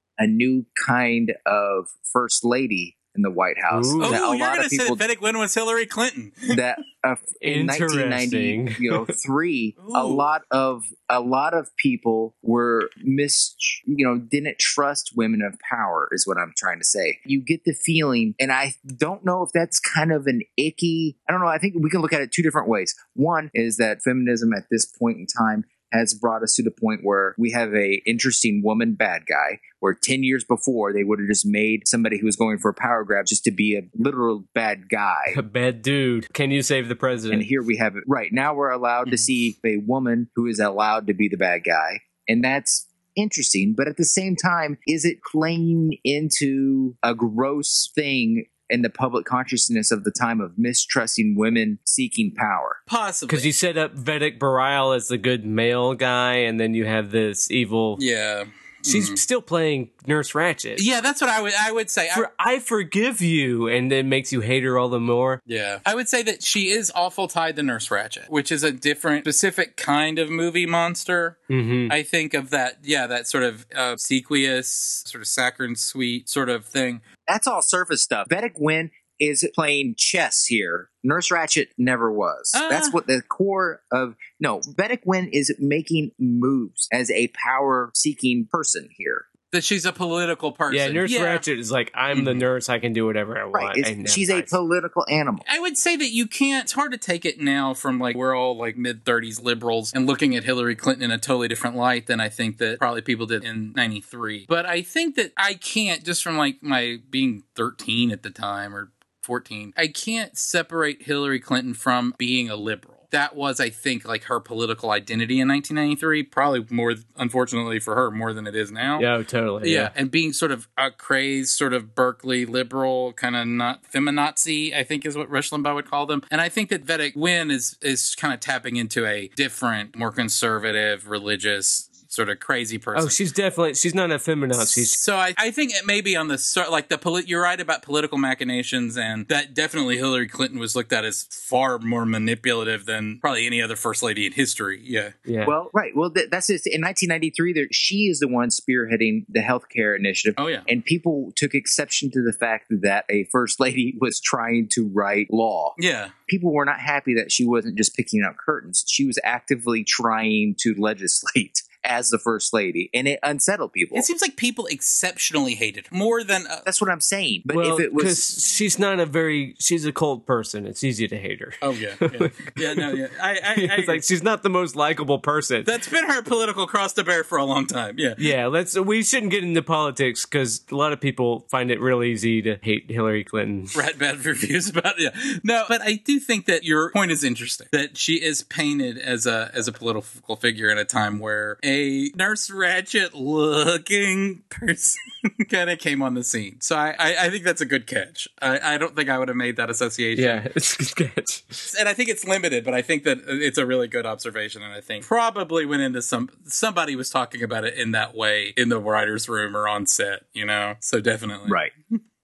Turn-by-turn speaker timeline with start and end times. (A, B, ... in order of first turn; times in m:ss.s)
0:00.2-0:05.0 A
0:03.7-0:04.2 B
0:04.0-0:06.6 C
0:06.5-0:35.4 A
0:07.4-0:08.8 B
0:09.8-0:10.3 C
0:35.3-0:37.5 B
0:37.3-0:52.8 A
0:52.9-0:53.5 C
0:53.3-0:58.0 B
0:58.0-0:59.2 C
0:58.8-1:00.9 B
1:00.8-1:02.3 C
1:02.1-1:05.4 B
1:05.5-1:17.0 C
1:11.5-1:12.0 B
1:17.3-1:29.3 A
1:22.5-1:23.0 C
1:29.5-1:31.4 C
1:30.7-1:34.5 B
1:32.1-1:32.4 C
1:33.5-1:35.4 A
1:35.5-1:59.1 C
1:59.0-1:59.9 B
1:59.6-2:13.2 C
2:13.0-2:15.0 B
2:14.6-2:25.1 C
2:25.3-2:25.5 B
2:25.4-2:35.8 A
2:30.4-2:30.7 C
2:35.8-2:36.1 C
2:36.3-2:44.1 A
2:43.9-2:46.6 C
2:46.7-2:48.2 A
2:47.5-2:53.0 B
2:51.6-2:54.0 C
2:53.6-2:55.7 B
2:55.6-2:58.2 C
2:58.2-3:03.7 B
3:03.7-3:20.4 C
3:20.2-3:21.6 B
3:21.7-3:32.0 C